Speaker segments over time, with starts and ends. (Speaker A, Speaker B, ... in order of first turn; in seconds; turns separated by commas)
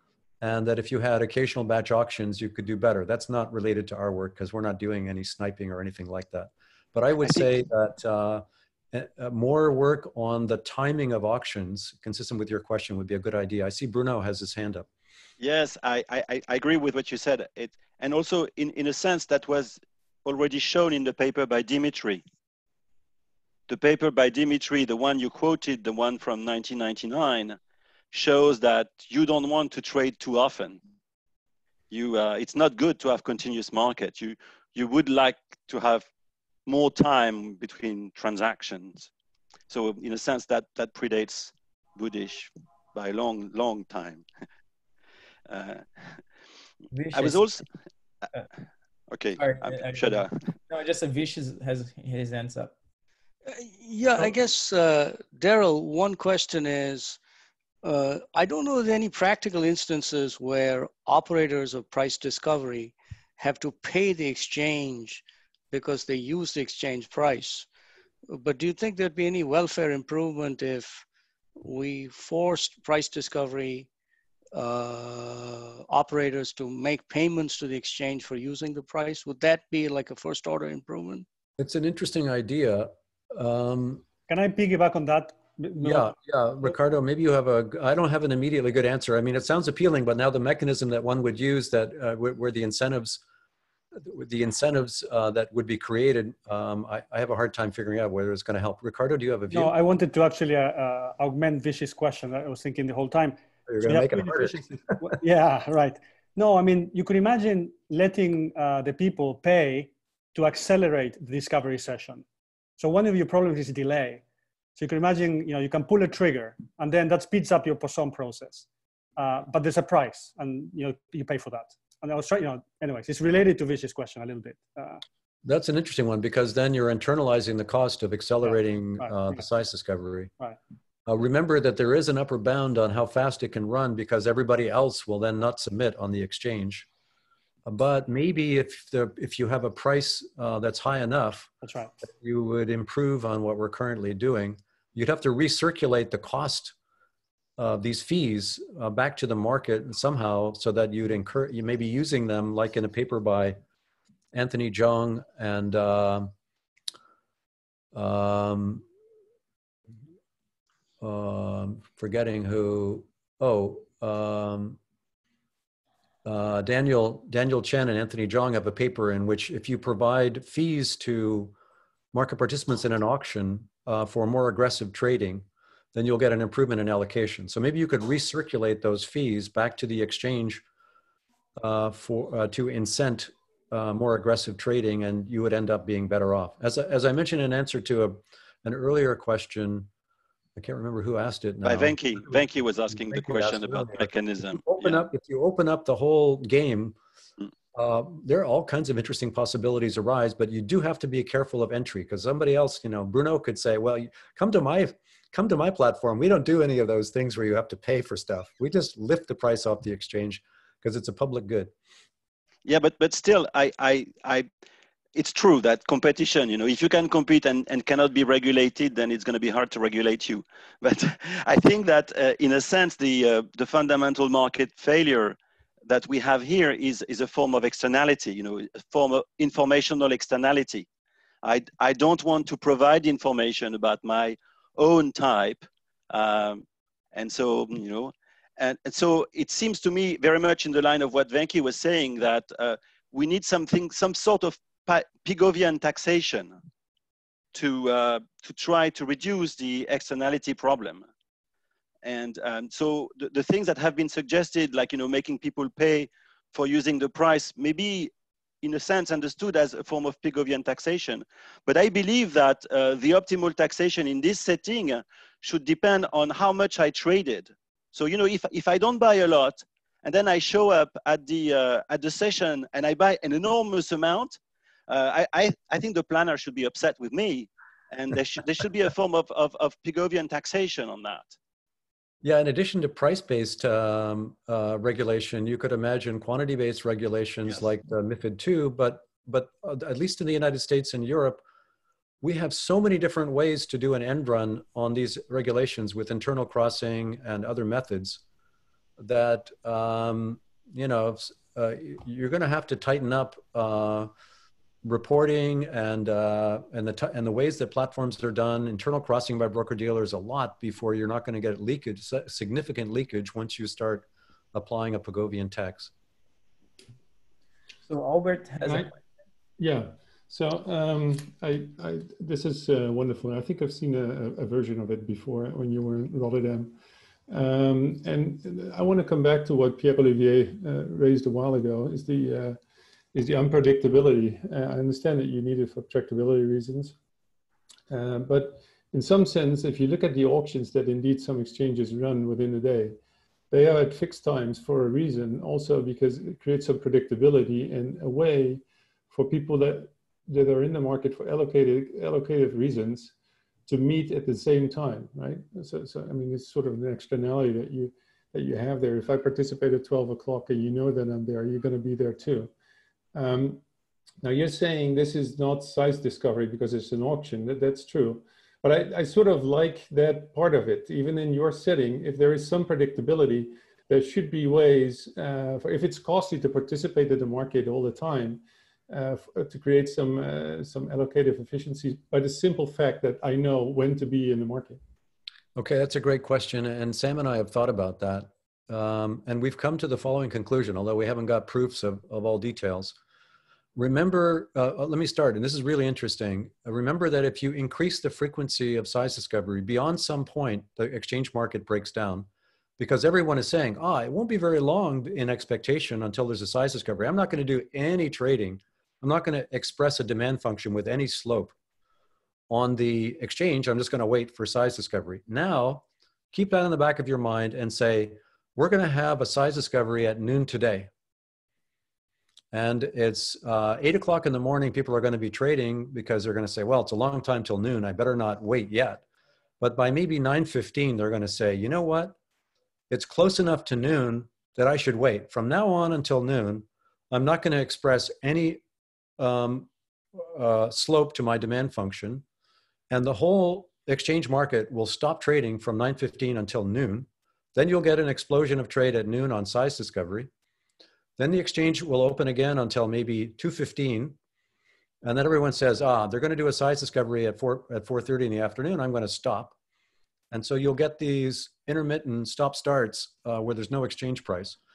Speaker A: 0.4-14.9, Speaker B: 7.2-7.5, Speaker B: 15.4-22.2, Speaker B: 23.7-27.6, Speaker B: 28.1-30.8, Speaker B: 31.9-36.0, Speaker B: 36.7-39.1, Speaker B: 39.7-44.2, Speaker B: 45.5-46.2, Speaker C: 46.9-47.5, Speaker B: 47.1-47.6, Speaker B: 49.1-50.5, Speaker C: 49.4-52.7, Speaker D: 53.5-57.2, Speaker D: 57.8-67.7, Speaker D: 68.3-71.0, Speaker D: 71.6-73.9, Speaker D: 74.5-81.2, Speaker A: 81.6-84.0, Speaker E: 84.3-86.1, Speaker A: 85.8-93.2, Speaker A: 94.0-99.7, Speaker E: 99.5-112.2, Speaker A: 103.7-104.6, Speaker E: 112.8-114.2, Speaker E: 114.8-125.0, Speaker A: 125.4-130.3, Speaker E: 128.4-129.4, Speaker A: 131.1-136.9, Speaker A: 137.7-141.5, Speaker E: 141.6-141.9, Speaker A: 142.0-146.7, Speaker A: 147.6-153.6, Speaker A: 154.3-156.3, Speaker A: 157.9-158.8, Speaker A: 161.0-164.8, Speaker A: 166.2-171.5, Speaker A: 172.1-180.6, Speaker A: 181.6-189.9, Speaker A: 190.6-196.9, Speaker B: 191.6-195.0, Speaker A: 197.7-211.7, Speaker B: 212.7-214.5, Speaker B: 215.1-230.8, Speaker B: 231.4-246.6, Speaker B: 247.5-251.1, Speaker B: 252.0-258.1, Speaker B: 258.6-281.3, Speaker A: 282.2-291.4, Speaker A: 292.2-298.2, Speaker A: 299.0-304.1, Speaker A: 304.8-315.9, Speaker C: 317.9-318.9, Speaker F: 318.6-318.9, Speaker F: 319.6-326.8, Speaker F: 327.3-332.6, Speaker F: 333.1-336.9, Speaker F: 337.9-343.0, Speaker F: 343.5-353.1, Speaker F: 353.7-362.5, Speaker F: 363.1-363.6, Speaker F: 364.2-384.8, Speaker A: 385.6-392.9, Speaker A: 393.8-411.5, Speaker A: 412.5-420.9, Speaker A: 422.5-429.0, Speaker A: 429.6-432.1, Speaker A: 432.9-438.6, Speaker A: 439.2-442.2, Speaker A: 442.9-450.3, Speaker A: 451.2-454.2, Speaker A: 455.0-459.5, Speaker A: 460.3-464.6